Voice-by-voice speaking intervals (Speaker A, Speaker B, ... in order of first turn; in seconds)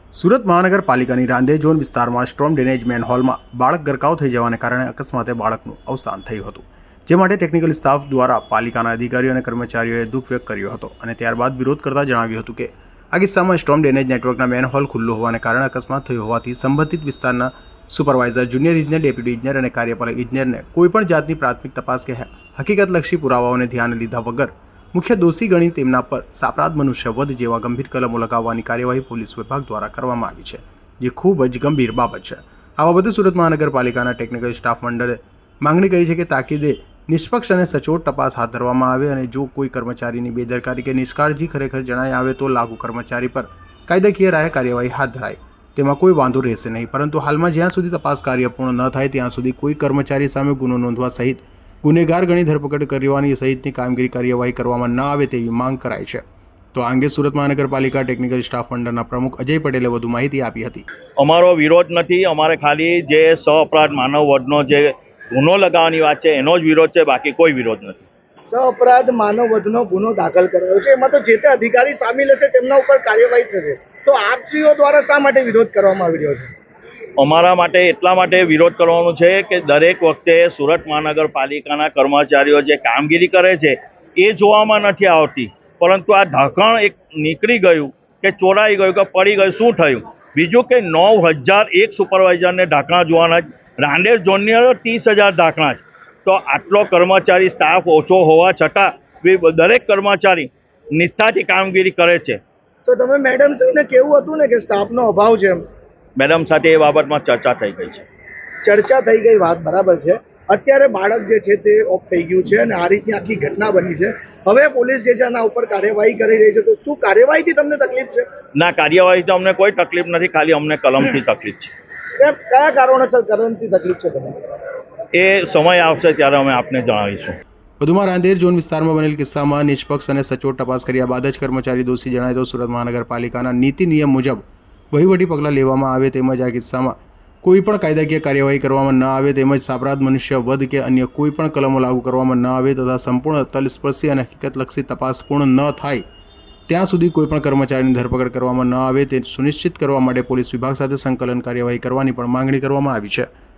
Speaker A: 0.1-56.2, 56.7-60.8, 127.8-146.0, 146.7-153.2
Speaker B: 61.2-68.1, 77.2-102.4, 106.2-108.0, 118.5-121.7, 125.1-127.4
Speaker C: 68.5-76.5, 102.8-105.6, 108.6-118.2, 122.2-124.4